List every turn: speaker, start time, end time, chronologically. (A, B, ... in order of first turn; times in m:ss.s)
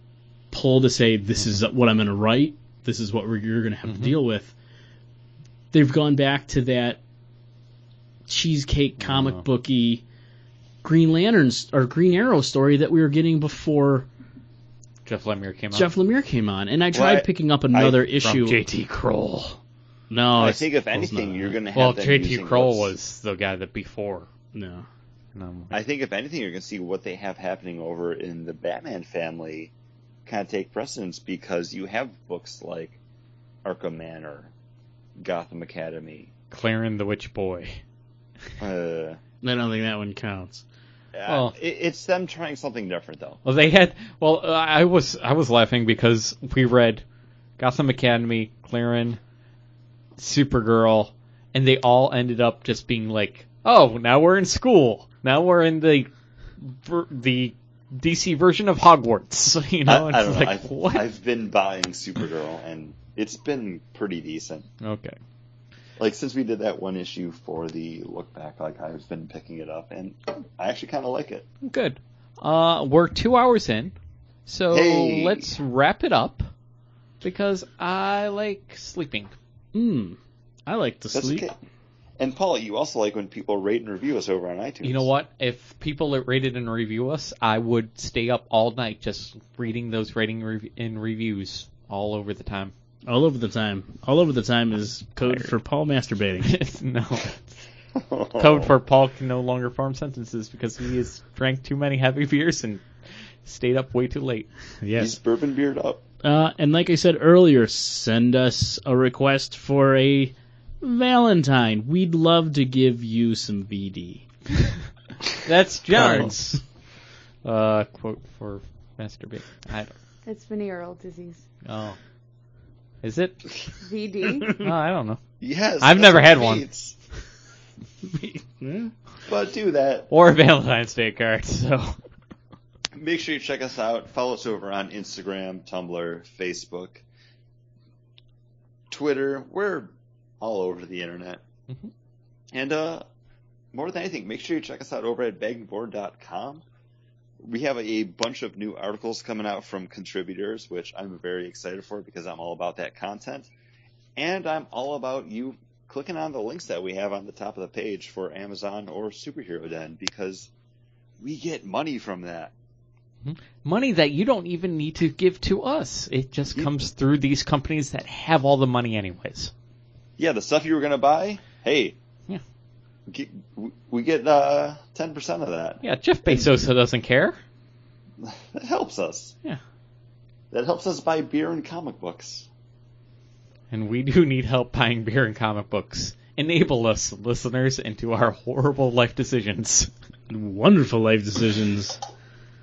0:00.5-0:04.5 A
0:03.9-0:04.2 B
0:05.7-0:07.0 A
0:08.3-0:10.0 A
0:09.0-0:09.4 B
0:10.8-0:14.1 A
0:15.0-0:15.9 B
0:15.7-0:18.6 A
0:16.9-0:18.0 C
0:18.2-0:19.6 B
0:20.1-0:21.5 A
0:20.4-0:22.9 C
0:21.7-0:24.3 B
0:24.5-0:24.8 A
0:25.3-0:25.7 B
0:25.7-0:29.7 C
0:30.2-0:33.0 C
0:33.6-0:34.5 C
0:35.2-0:36.3 C
0:36.5-0:37.8 B
0:38.6-0:39.2 C
0:39.4-0:40.6 A
0:41.1-0:43.4 C
0:41.3-0:41.5 B
0:43.4-0:47.0 B
0:47.6-0:49.2 B
0:50.2-0:56.1 B
0:56.6-1:01.0 B
0:59.9-1:04.6 C
1:04.8-1:05.2 B
1:06.0-1:11.4 C
1:11.6-1:13.9 B
1:14.5-1:16.5 B
1:14.7-1:15.5 C
1:17.2-1:19.3 B
1:19.7-1:21.5 A
1:21.1-1:21.6 C
1:22.2-1:25.1 C
1:24.8-1:32.7 B
1:33.1-1:36.5 A
1:35.2-1:35.5 B
1:36.4-1:37.5 B
1:37.9-1:38.7 C
1:38.4-1:44.5 B
1:44.8-1:45.2 A
1:45.0-1:46.0 C
1:46.2-1:54.2 A
1:55.4-1:56.6 B
1:55.9-1:56.4 A
1:57.4-1:59.9 B
2:00.2-2:01.4 D
2:01.6-2:02.0 B
2:03.0-2:03.5 B
2:03.7-2:04.6 D
2:04.5-2:05.2 B
2:05.4-2:06.9 C
2:05.8-2:06.6 B
2:08.0-2:08.9 A
2:09.2-2:10.1 C
2:10.1-2:12.0 B
2:12.9-2:17.0 C
2:18.9-2:21.4 C
2:22.5-2:23.0 C
2:23.7-2:26.6 C
2:27.4-2:33.5 C
2:34.2-2:40.5 C
2:41.2-2:42.5 C
2:43.2-2:49.5 B
2:50.2-2:52.0 C
2:53.1-2:56.4 C
2:55.8-2:57.4 B
2:58.2-2:59.3 C
3:00.5-3:02.5 C
3:03.7-3:09.9 B
3:10.3-3:12.0 A